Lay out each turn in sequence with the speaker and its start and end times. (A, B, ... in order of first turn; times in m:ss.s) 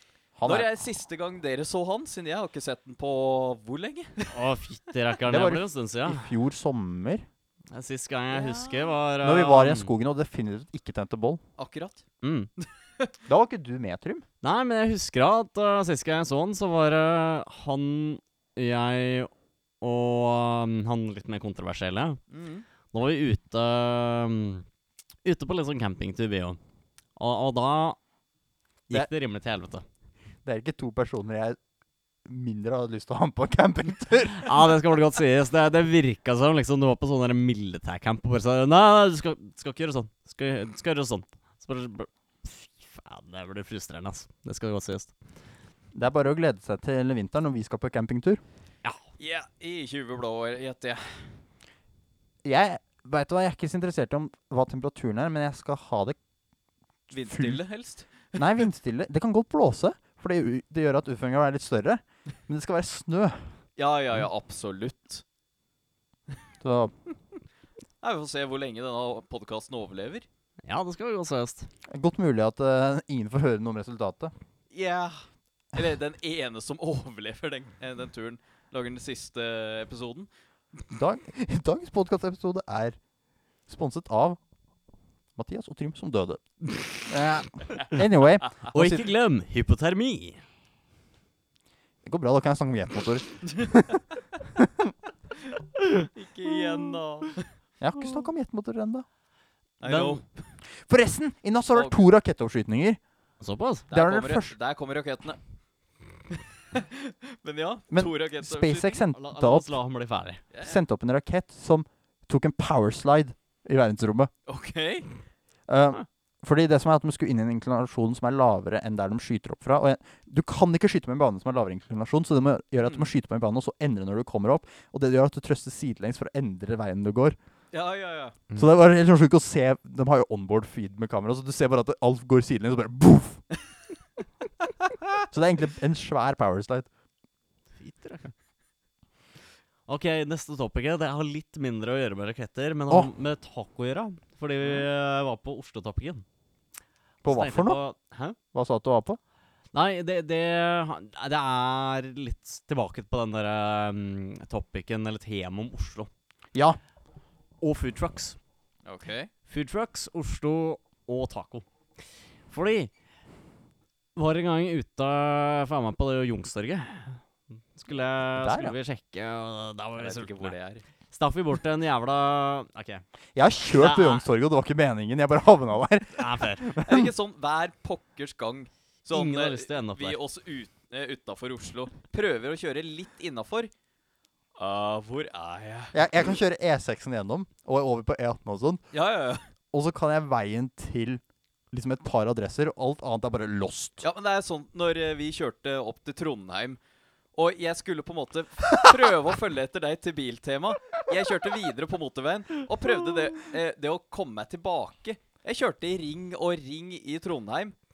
0:00.4-0:00.7 A
0:00.4-0:04.3 B
0:04.3-0:06.3 C
0:05.3-0:07.3 A
0:07.7-0:09.9 C
0:08.3-0:09.0 B
0:09.2-0:11.4 A
0:11.6-0:12.0 B
0:12.2-0:12.5 C
0:12.6-0:13.1 B
0:13.3-0:14.2 A
0:14.4-0:19.3 C
0:19.8-0:22.2 C
0:22.3-0:22.7 B
0:22.9-0:24.6 C
0:25.2-0:26.6 C
0:27.2-0:28.0 C
0:28.9-0:29.8 C
0:30.4-0:31.6 A
0:32.2-0:34.6 A
0:34.4-0:45.1 C
0:45.9-0:48.4 A
0:49.2-0:51.3 B
0:52.4-0:56.2 A
0:57.1-0:58.4 B
0:57.2-0:57.6 A
0:58.4-1:03.5 A
1:03.8-1:05.2 B
1:06.6-1:06.9 A
1:08.0-1:10.3 B
1:10.6-1:11.7 C
1:11.9-1:14.3 A
1:14.7-1:20.3 B
1:20.9-1:23.0 A
1:23.7-1:24.4 A
1:25.4-1:26.4 A
1:27.0-1:29.1 A
1:28.7-1:30.4 C
1:32.0-1:34.0 A
1:34.6-1:34.9 A
1:36.1-1:37.5 B
1:37.8-1:39.1 A
1:39.8-1:40.2 B
1:39.9-1:40.2 C
1:40.7-1:43.0 A
1:43.4-1:43.9 C
1:43.9-1:45.4 B
1:43.9-1:44.5 A
1:46.7-1:49.0 B
1:47.9-1:49.7 A
1:49.1-1:50.4 C
1:50.5-1:50.8 B
1:50.6-1:54.3 A
1:54.5-1:55.1 B
1:55.7-2:07.4 A
2:07.7-2:08.4 B
2:08.6-2:13.4 A
2:15.3-2:16.9 A
2:17.8-2:18.3 C
2:19.9-2:26.2 C
2:27.2-2:27.8 A
2:27.2-2:28.4 C
2:28.5-2:29.2 A
2:29.7-2:36.1 C
2:36.5-2:36.8 A
2:37.6-2:38.4 C
2:38.8-2:39.3 B
2:39.5-2:41.6 C
2:42.5-2:42.9 C
2:44.2-2:47.2 C
2:47.8-2:50.5 C
2:48.4-2:48.8 A
2:50.0-2:50.8 B
2:51.1-2:53.0 C
2:53.4-2:57.1 A
2:53.7-2:54.2 C
2:56.2-2:56.6 C
2:56.8-3:03.7 B
2:59.1-3:00.2 C
3:04.6-3:06.0 B
3:05.9-3:08.8 A
3:08.9-3:09.4 B
3:09.7-3:14.0 A
3:14.0-3:16.8 B
3:17.4-3:27.8 B